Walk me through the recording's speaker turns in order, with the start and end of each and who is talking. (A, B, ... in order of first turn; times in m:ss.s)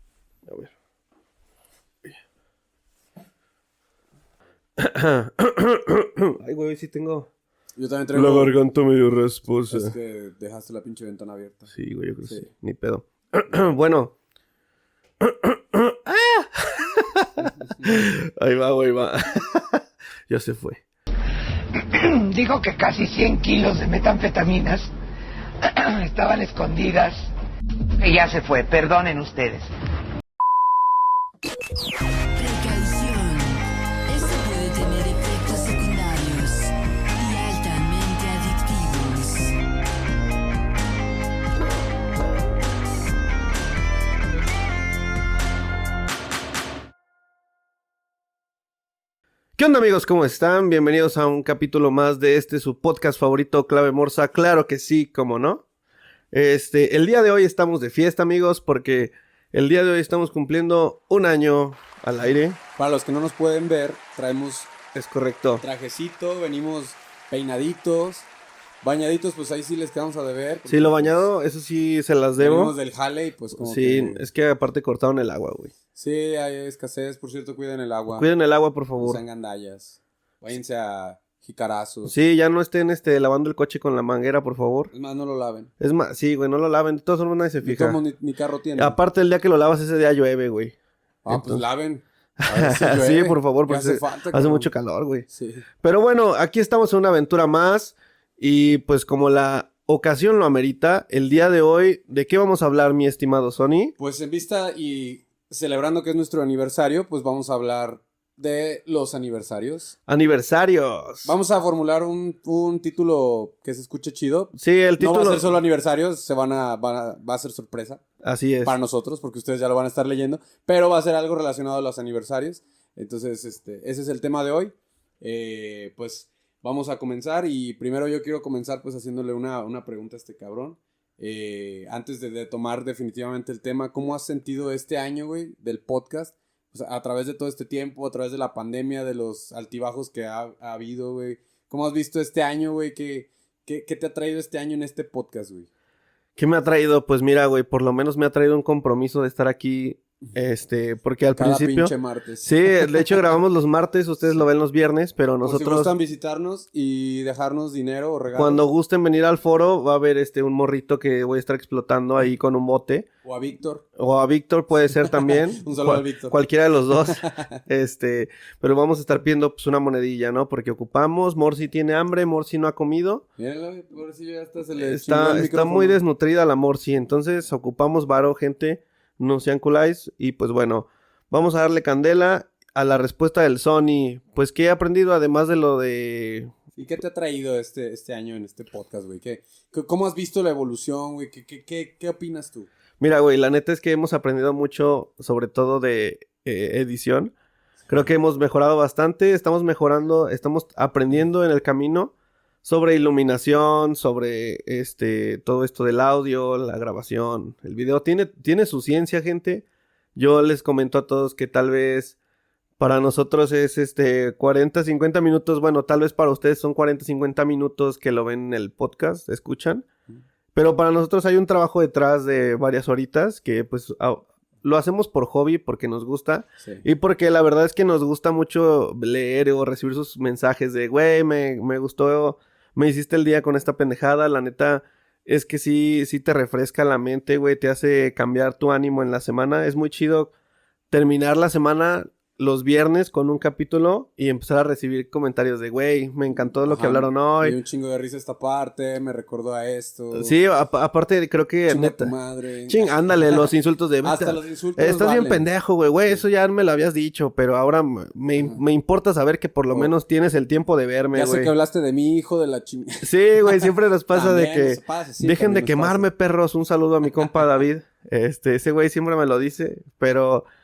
0:00.5-0:00.7 A
0:04.8-0:07.3 A
0:07.8-0:08.5 B
0:08.1-0:09.9 A
0:09.7-0:11.7 B
0:11.7-0:14.1 A
0:15.2-0:20.8 A
0:21.8-0:24.9 C
0:25.6-0:27.3 C
0:28.0-0:29.7 C
0:32.3-0:39.5 D
0:49.6-0:55.6 A
0:56.3-1:02.6 A
1:02.8-1:04.7 B
1:04.9-1:05.6 A
1:05.6-1:08.3 B
1:08.8-1:11.2 B
1:10.7-1:12.7 A
1:12.4-1:14.2 B
1:13.6-1:15.7 A
1:15.9-1:18.2 B
1:18.1-1:19.2 A
1:19.0-1:22.1 B
1:22.0-1:24.9 A
1:24.9-1:25.7 B
1:25.8-1:28.0 A
1:27.6-1:29.0 B
1:28.8-1:30.7 A
1:31.2-1:34.7 B
1:31.3-1:31.6 A
1:32.4-1:35.3 A
1:35.3-1:35.6 B
1:35.8-1:43.9 A
1:44.0-1:49.9 B
1:50.1-1:51.3 A
1:51.2-1:58.0 B
1:54.5-1:55.5 A
1:58.2-1:58.8 A
1:58.6-2:25.7 B
2:26.4-2:35.9 A
2:31.3-2:33.0 B
2:35.4-2:38.6 B
2:38.4-2:43.1 A
2:43.2-2:43.8 B
2:44.0-2:53.2 A
2:45.0-2:46.3 B
2:47.1-2:47.5 B
2:53.4-2:56.0 B
2:54.8-3:06.5 A
3:06.8-3:12.7 B
3:13.0-3:17.3 A
3:17.9-3:22.1 A
3:22.6-3:29.6 A
3:30.2-3:32.2 A
3:32.8-3:39.8 A
3:40.5-4:00.3 A
4:00.9-4:07.6 A
4:06.7-4:10.4 B
4:10.1-4:12.1 A
4:11.7-4:13.5 B
4:12.7-4:21.5 A
4:14.0-4:15.4 B
4:18.3-4:18.6 B
4:21.1-4:26.1 B
4:23.0-4:30.4 A